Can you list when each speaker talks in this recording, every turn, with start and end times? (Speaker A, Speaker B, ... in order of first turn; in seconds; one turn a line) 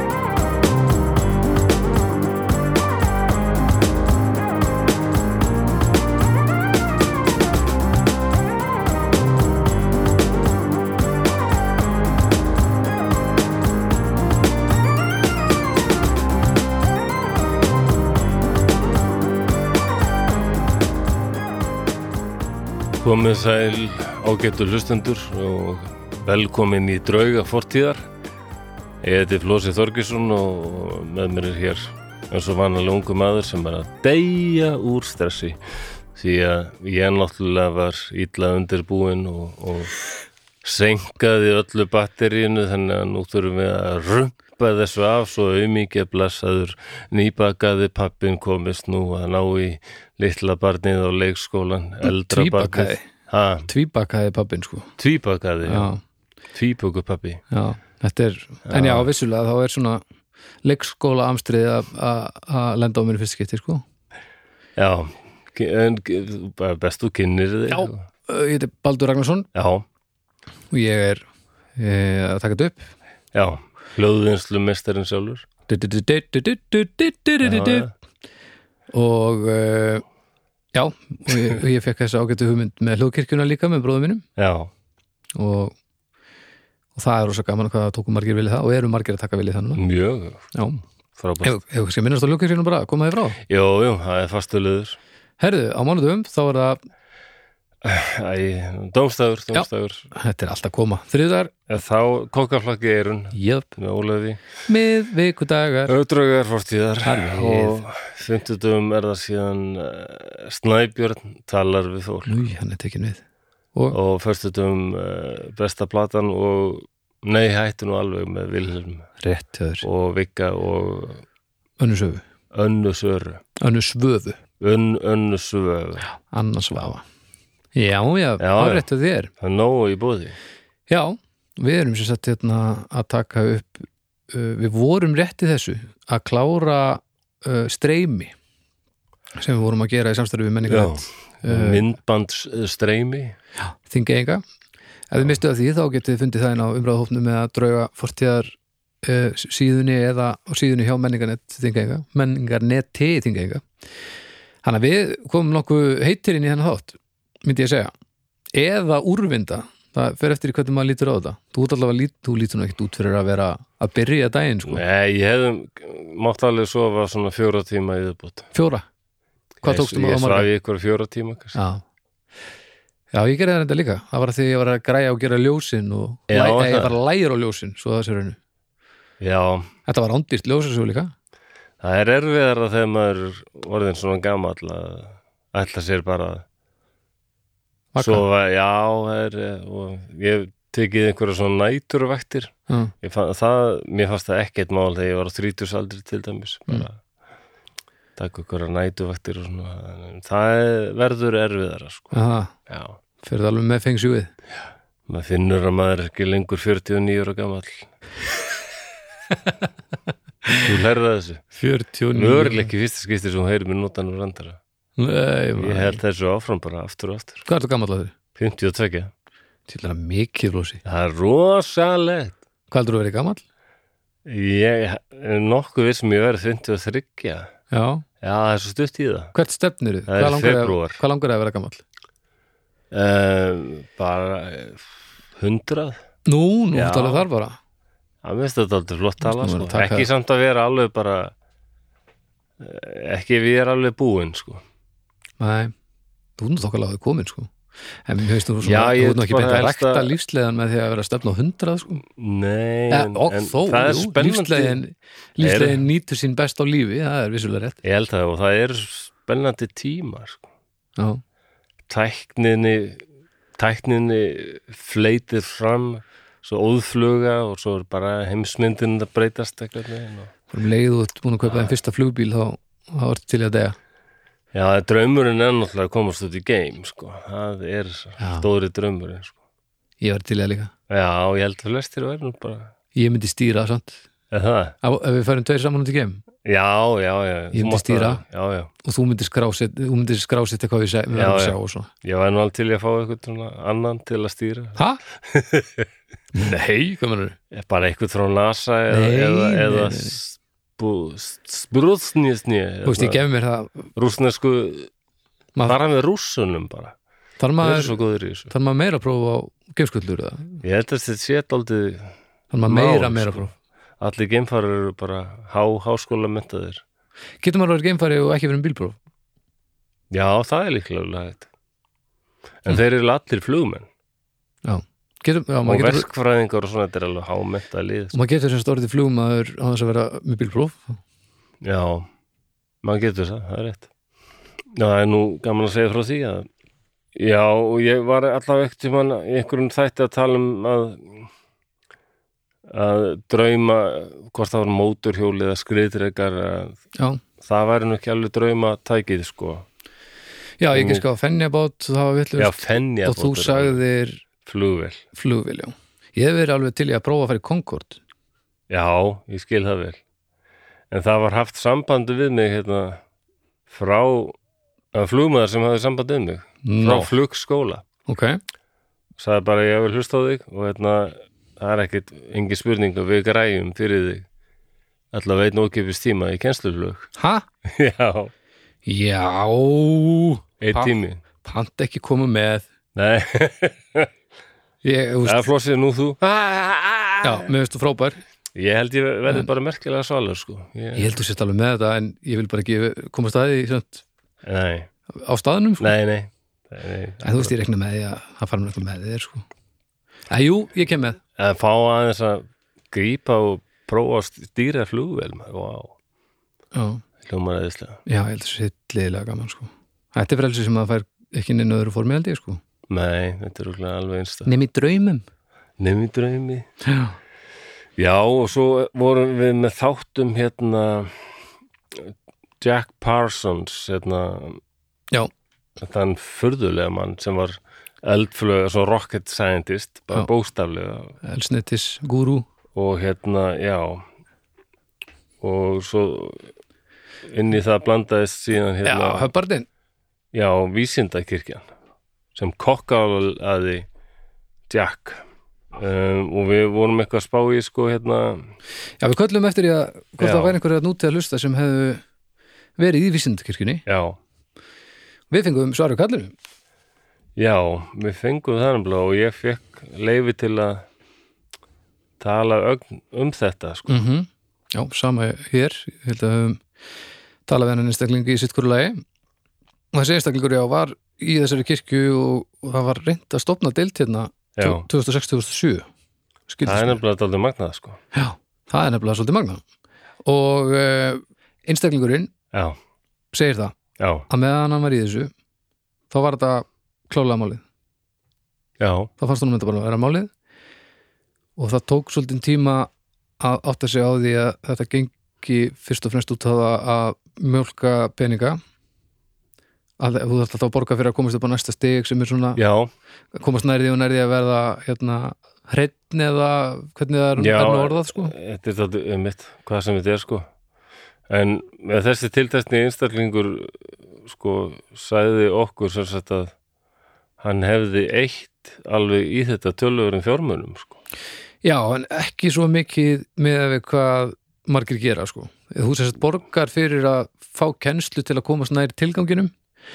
Speaker A: 23.0-28.1
Speaker A: 29.0-35.6
Speaker A: 36.1-39.9
Speaker A: 40.6-53.7
Speaker B: 52.0-53.0
Speaker B: 53.7-54.9
Speaker A: 55.0-55.9
Speaker B: 55.6-56.0
Speaker A: 56.5-57.4
Speaker B: 57.5-60.0
Speaker A: 58.7-59.1
Speaker B: 60.6-63.8
Speaker A: 64.8-68.0
Speaker B: 67.7-69.5
Speaker A: 69.5-69.8
Speaker B: 70.7-71.2
Speaker B: 71.8-72.9
Speaker A: 73.3-75.5
Speaker B: 75.7-77.9
Speaker A: 77.4-77.9
Speaker B: 78.9-80.0
Speaker B: 80.7-84.2
Speaker A: 84.4-84.7
Speaker B: 85.3-85.7
Speaker B: 87.0-89.8
Speaker A: 89.8-90.4
Speaker B: 90.5-90.8
Speaker A: 91.2-91.6
Speaker B: 91.4-93.4
Speaker A: 93.5-95.0
Speaker B: 95.4-96.8
Speaker A: 97.8-100.1
Speaker B: 99.5-101.5
Speaker A: 101.7-104.4
Speaker B: 103.3-103.7
Speaker B: 104.7-105.9
Speaker A: 105.9-112.4
Speaker B: 107.0-107.8
Speaker B: 112.3-113.2
Speaker A: 113.9-119.1
Speaker B: 119.2-119.8
Speaker A: 119.8-121.2
Speaker B: 121.8-122.2
Speaker A: 122.5-123.4
Speaker B: 123.6-124.4
Speaker A: 124.6-126.1
Speaker B: 126.3-127.0
Speaker B: 127.8-129.3
Speaker A: 128.4-128.8
Speaker A: 129.4-130.4
Speaker B: 130.9-138.3
Speaker B: 139.4-141.8
Speaker A: 140.7-143.4
Speaker B: 143.8-144.4
Speaker B: 145.1-153.6
Speaker B: 154.6-157.9
Speaker B: 158.5-164.8
Speaker A: 164.7-168.5
Speaker B: 168.5-168.8
Speaker B: 169.6-170.5
Speaker A: 169.7-171.6
Speaker B: 171.6-171.8
Speaker B: 173.1-178.4
Speaker A: 176.3-176.9
Speaker A: 179.2-179.7
Speaker B: 179.9-181.1
Speaker A: 181.8-186.4
Speaker B: 187.9-188.2
Speaker A: 188.0-197.0
Speaker A: 198.2-202.1
Speaker B: 202.1-202.6
Speaker A: 202.7-203.0
Speaker B: 203.2-204.3
Speaker A: 205.1-207.9
Speaker A: 210.5-211.4
Speaker B: 211.6-212.7
Speaker A: 212.1-214.6
Speaker B: 215.0-216.0
Speaker A: 215.6-217.4
Speaker B: 217.4-218.2
Speaker A: 218.4-219.1
Speaker B: 219.7-220.8
Speaker A: 220.8-222.4
Speaker B: 222.7-223.4
Speaker A: 224.2-227.5
Speaker B: 227.7-228.1
Speaker A: 228.2-229.3
Speaker B: 229.3-231.8
Speaker A: 230.1-231.0
Speaker A: 232.9-236.0
Speaker B: 236.3-237.6
Speaker A: 236.7-237.2
Speaker A: 238.2-241.3
Speaker B: 239.2-240.1
Speaker A: 242.6-244.6
Speaker B: 245.4-245.7
Speaker B: 246.4-247.5
Speaker B: 248.1-252.0
Speaker A: 248.6-250.1
Speaker A: 252.1-254.8
Speaker B: 252.9-257.8
Speaker A: 255.4-255.8
Speaker A: 257.8-260.5
Speaker A: 261.9-263.0
Speaker A: 263.6-270.3
Speaker B: 270.5-273.8
Speaker A: 271.4-271.8
Speaker A: 274.5-279.4
Speaker B: 278.2-278.5
Speaker B: 280.0-280.7
Speaker A: 280.9-282.7
Speaker B: 282.9-284.0
Speaker A: 284.3-284.8
Speaker B: 284.8-286.2
Speaker A: 286.4-288.7
Speaker B: 287.5-288.2
Speaker B: 288.8-291.9
Speaker A: 291.1-295.9
Speaker B: 296.3-297.4
Speaker A: 297.5-303.2
Speaker B: 298.9-300.2
Speaker B: 302.9-303.9
Speaker A: 303.9-304.9
Speaker A: 305.6-306.9
Speaker B: 307.4-308.0
Speaker A: 307.6-308.5
Speaker B: 308.5-310.6
Speaker A: 310.6-312.1
Speaker B: 312.5-313.5
Speaker A: 312.6-313.4
Speaker A: 314.0-316.8
Speaker B: 317.4-319.0
Speaker A: 320.1-321.5
Speaker A: 322.6-323.9
Speaker B: 324.6-326.1
Speaker A: 325.6-328.1
Speaker B: 328.1-330.9
Speaker A: 331.6-332.1
Speaker A: 332.8-333.9
Speaker A: 334.7-336.5
Speaker A: 337.1-341.3
Speaker A: 342.7-346.8
Speaker A: 347.4-349.7
Speaker B: 350.6-354.2
Speaker A: 350.7-351.0
Speaker A: 352.4-353.8
Speaker A: 354.4-355.0
Speaker B: 355.1-358.0
Speaker A: 358.7-360.0
Speaker A: 360.9-363.0
Speaker A: 363.7-364.4
Speaker A: 364.9-367.8
Speaker B: 366.6-367.1
Speaker B: 368.1-368.4
Speaker A: 369.2-374.2
Speaker A: 375.1-377.1
Speaker B: 377.2-377.4
Speaker A: 377.6-378.3
Speaker B: 378.9-382.6
Speaker A: 380.6-381.2
Speaker A: 382.9-384.1
Speaker B: 384.8-385.5
Speaker A: 385.2-387.5
Speaker B: 387.2-388.2
Speaker A: 388.5-391.1
Speaker B: 390.9-394.0
Speaker A: 394.4-394.9
Speaker B: 395.2-395.9
Speaker A: 395.8-397.5
Speaker B: 397.2-399.4
Speaker B: 400.3-401.2
Speaker A: 401.4-405.9
Speaker B: 406.7-407.0
Speaker A: 407.2-408.0
Speaker B: 408.1-412.6
Speaker A: 412.9-414.5
Speaker B: 414.4-415.2
Speaker A: 415.8-416.7
Speaker B: 416.8-417.1
Speaker A: 418.0-421.2
Speaker A: 421.9-424.6
Speaker A: 425.8-431.1
Speaker B: 431.2-432.5
Speaker A: 432.7-434.0
Speaker A: 435.4-436.5
Speaker A: 437.2-439.3
Speaker B: 438.8-439.6
Speaker A: 440.3-441.6
Speaker A: 442.3-443.9
Speaker A: 444.7-445.2
Speaker A: 445.7-448.5
Speaker B: 449.0-452.0
Speaker A: 450.2-450.5
Speaker B: 452.8-453.8
Speaker A: 453.9-454.2
Speaker B: 455.3-456.3
Speaker A: 457.4-460.8
Speaker A: 462.2-463.9
Speaker B: 463.9-466.6
Speaker B: 467.5-469.0
Speaker B: 469.9-475.9
Speaker A: 474.6-474.8
Speaker B: 476.5-477.0
Speaker A: 476.6-478.0
Speaker B: 478.1-479.6
Speaker B: 480.2-482.3
Speaker B: 483.3-483.8
Speaker A: 484.0-484.2
Speaker B: 484.3-485.3
Speaker B: 486.1-487.6
Speaker A: 488.8-489.1
Speaker B: 489.2-490.3
Speaker B: 491.6-498.6
Speaker B: 500.0-502.6
Speaker A: 502.6-502.9
Speaker B: 503.3-508.3
Speaker A: 507.4-510.5
Speaker A: 511.3-516.5
Speaker A: 517.4-521.0
Speaker B: 521.6-529.5